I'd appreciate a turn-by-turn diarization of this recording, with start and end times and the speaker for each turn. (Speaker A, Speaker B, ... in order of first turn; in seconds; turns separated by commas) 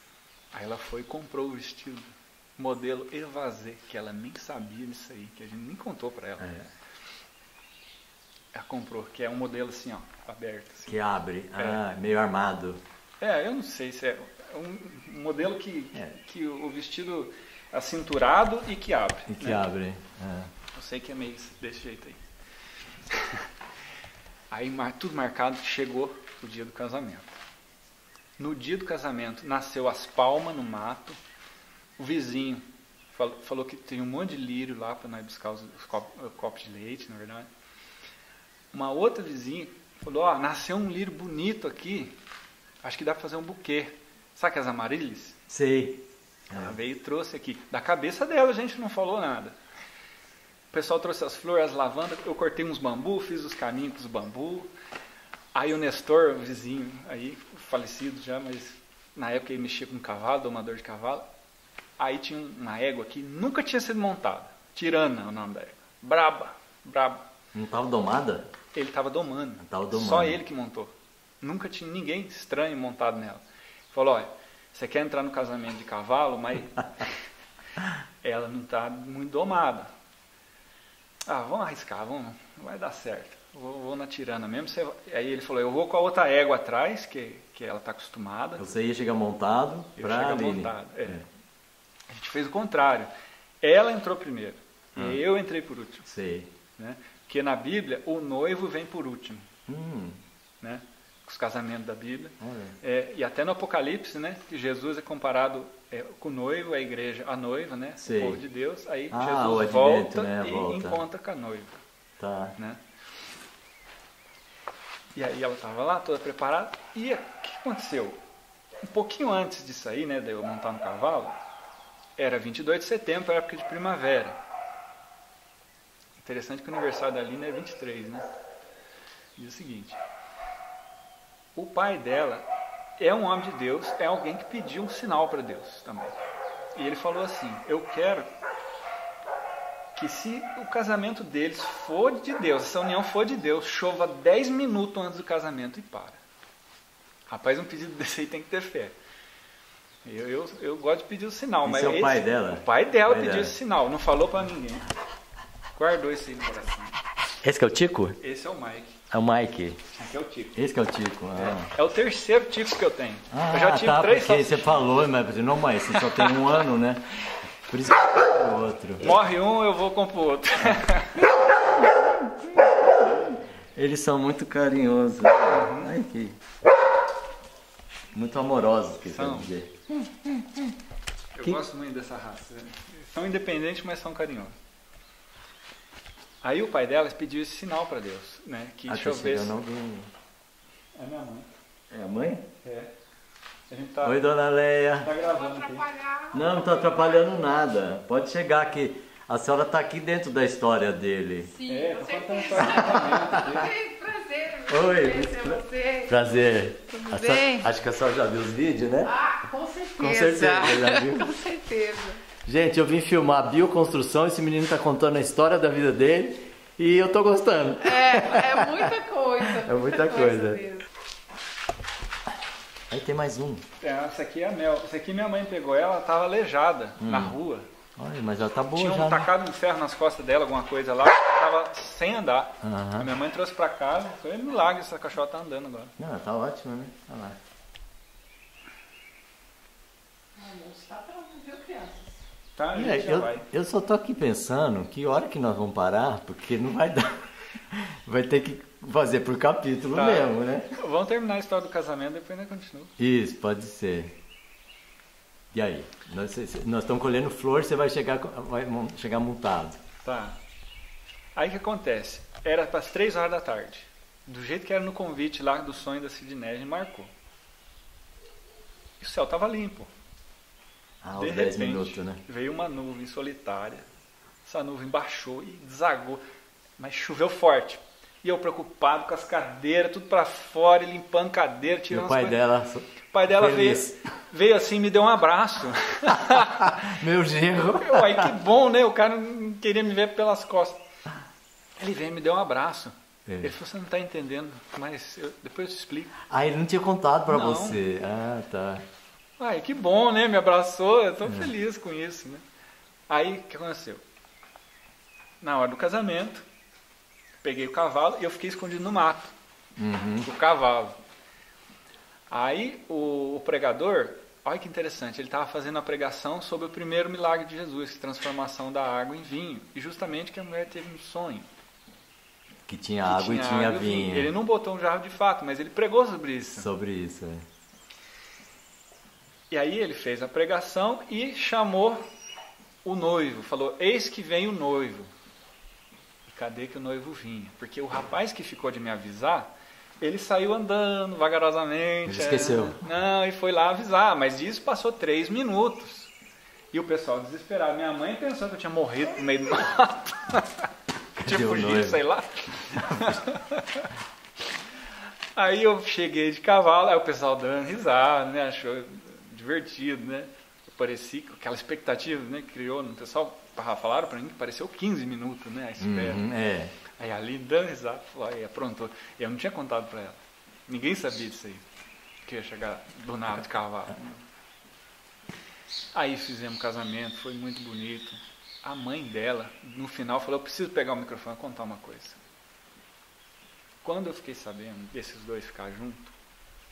Speaker A: 0.5-6.7, Speaker B: 6.4-6.6, Speaker A: 8.5-10.9, Speaker B: 10.9-12.8, Speaker A: 13.2-19.6, Speaker B: 19.3-20.5, Speaker A: 20.7-22.2, Speaker A: 23.1-23.4, Speaker A: 24.5-27.4, Speaker A: 28.4-31.2, Speaker A: 32.0-37.5, Speaker A: 38.7-42.2, Speaker A: 42.8-45.4, Speaker B: 45.5-46.8, Speaker A: 46.5-49.5, Speaker A: 50.7-54.7, Speaker A: 55.5-61.2, Speaker A: 62.0-67.2, Speaker B: 67.5-68.5, Speaker A: 68.7-77.1, Speaker B: 69.6-70.4, Speaker A: 78.2-79.9, Speaker A: 81.2-88.7, Speaker B: 88.6-91.2, Speaker A: 90.0-91.2, Speaker A: 92.1-93.1, Speaker A: 93.6-96.1, Speaker B: 94.9-95.2, Speaker B: 96.1-96.5, Speaker A: 96.8-99.5, Speaker B: 99.7-100.2, Speaker A: 100.6-111.8, Speaker B: 102.4-102.8, Speaker B: 108.0-108.4, Speaker B: 109.1-111.0, Speaker B: 112.2-112.5, Speaker A: 115.1-118.2, Speaker A: 118.8-121.4, Speaker A: 122.2-124.4, Speaker A: 126.2-128.3, Speaker A: 129.3-130.0, Speaker A: 131.5-132.4, Speaker A: 133.0-136.2, Speaker A: 136.8-138.3, Speaker A: 139.9-146.2, Speaker A: 147.3-148.9, Speaker A: 150.0-154.9, Speaker B: 151.6-153.5, Speaker A: 155.7-157.0, Speaker B: 157.4-158.2, Speaker A: 158.2-159.0, Speaker B: 159.1-159.8, Speaker A: 159.9-160.6, Speaker B: 160.5-161.7, Speaker A: 161.3-165.1, Speaker B: 163.3-167.1, Speaker A: 165.9-166.6, Speaker B: 167.6-169.2, Speaker A: 169.0-171.2, Speaker B: 170.7-176.4, Speaker A: 175.5-175.9, Speaker B: 178.1-180.7, Speaker A: 179.0-179.5, Speaker A: 181.3-184.5, Speaker A: 186.4-189.6, Speaker B: 188.9-190.1, Speaker A: 190.9-191.5, Speaker B: 191.9-192.5, Speaker A: 192.6-192.9, Speaker A: 193.7-194.2, Speaker B: 194.0-195.1, Speaker A: 195.0-195.9, Speaker C: 195.2-197.3, Speaker B: 196.3-201.6, Speaker C: 201.5-206.2, Speaker A: 201.6-203.7, Speaker B: 202.7-203.4, Speaker B: 204.7-209.2, Speaker C: 206.9-207.7, Speaker C: 209.0-212.2, Speaker B: 210.0-211.4, Speaker B: 212.4-220.7, Speaker C: 217.8-220.8, Speaker B: 222.9-223.7, Speaker A: 223.8-227.7, Speaker B: 227.0-227.3, Speaker B: 227.9-229.3, Speaker A: 228.7-235.9, Speaker B: 232.6-233.1, Speaker B: 236.0-237.4, Speaker C: 240.3-242.2, Speaker A: 242.6-243.4, Speaker B: 242.7-250.7, Speaker A: 249.9-252.9, Speaker B: 253.0-254.1, Speaker B: 255.5-259.8, Speaker A: 260.0-260.4, Speaker A: 261.4-267.1, Speaker A: 269.0-269.9, Speaker B: 271.0-272.2, Speaker A: 271.1-273.9, Speaker A: 274.4-276.2, Speaker A: 276.8-282.4, Speaker B: 281.9-284.0, Speaker A: 283.1-286.9, Speaker B: 286.3-288.3, Speaker A: 287.7-290.8, Speaker A: 291.8-296.2, Speaker B: 293.2-293.5, Speaker B: 296.3-298.8, Speaker A: 297.3-297.8, Speaker A: 299.4-302.4, Speaker A: 303.1-304.0, Speaker A: 305.4-306.4, Speaker A: 307.4-309.3, Speaker B: 309.8-310.3, Speaker A: 310.2-311.0, Speaker A: 312.3-321.5, Speaker B: 322.7-324.3, Speaker A: 323.1-326.7, Speaker B: 326.5-327.4, Speaker A: 329.5-332.0, Speaker A: 332.8-335.1, Speaker A: 336.3-346.1, Speaker B: 342.1-342.8, Speaker A: 346.7-350.7, Speaker B: 351.2-352.0, Speaker A: 351.2-353.9, Speaker A: 355.3-366.2, Speaker B: 365.8-366.7, Speaker A: 367.0-371.6, Speaker A: 372.2-374.2, Speaker A: 375.9-382.2, Speaker A: 383.8-386.1